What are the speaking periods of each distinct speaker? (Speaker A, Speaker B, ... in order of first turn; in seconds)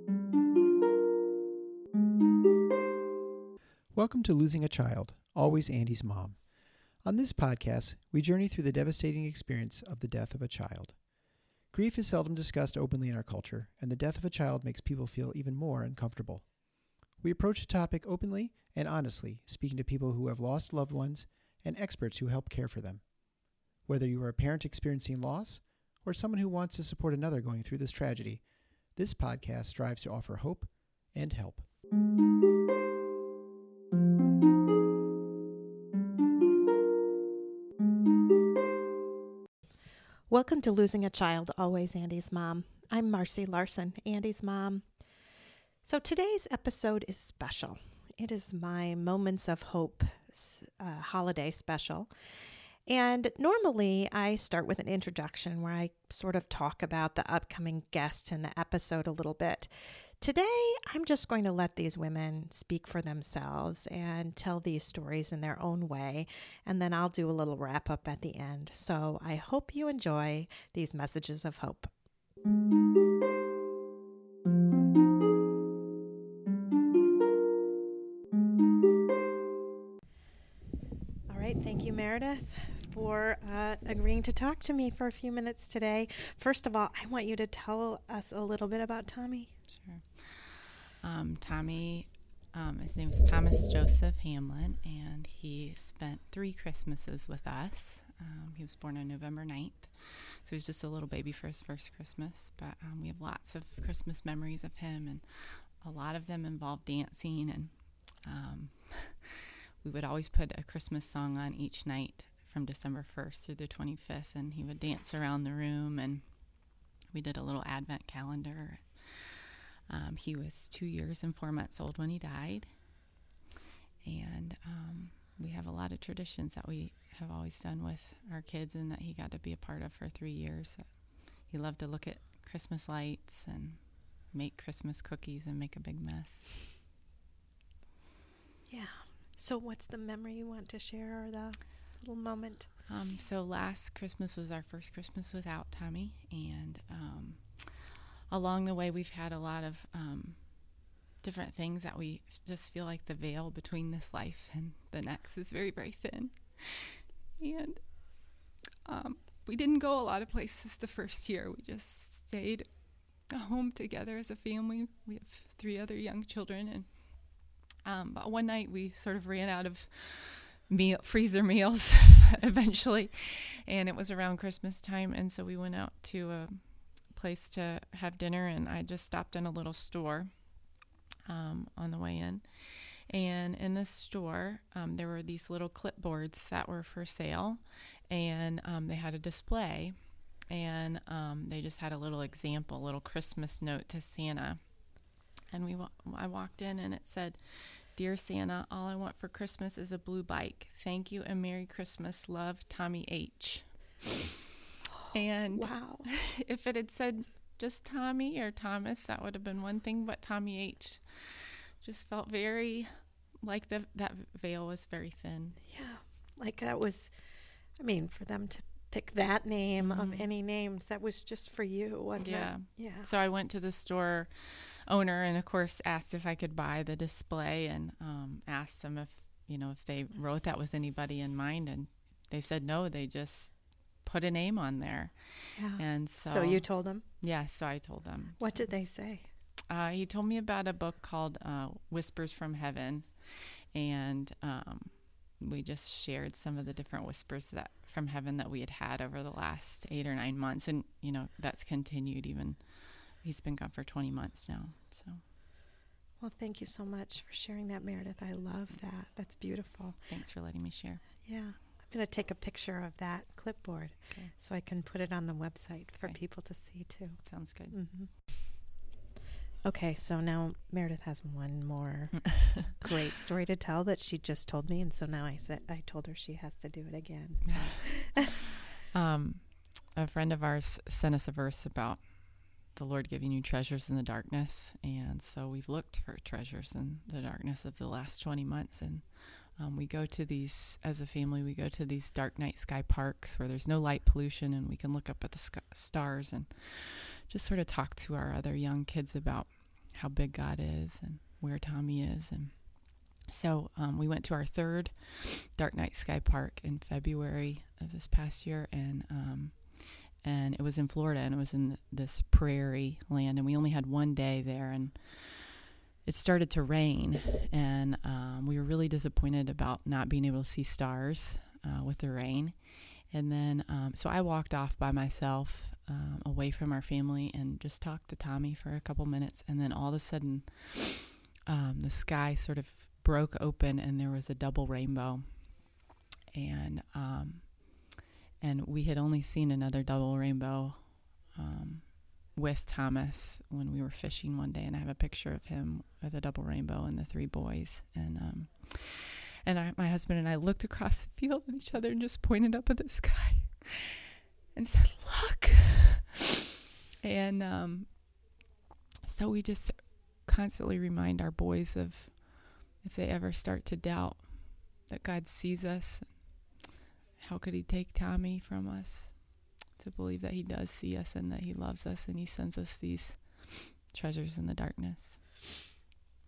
Speaker A: 3.9-31.6
Speaker B: 40.3-45.1, 45.8-52.1, 52.9-71.9, 81.3-89.5, 138.7-142.7, 205.5-206.1, 215.7-217.1, 217.7-223.1, 235.5-237.0, 238.4-239.3, 256.2-260.0, 261.2-268.3, 269.6-278.5
Speaker C: 89.7-123.0, 124.0-136.7, 142.9-204.1, 205.1-215.6, 219.8-220.2, 222.2-238.8, 239.7-255.2, 260.1-261.2, 266.0-267.8, 278.9-353.9, 354.5-356.2, 357.0-358.3, 359.0-366.6, 367.2-375.4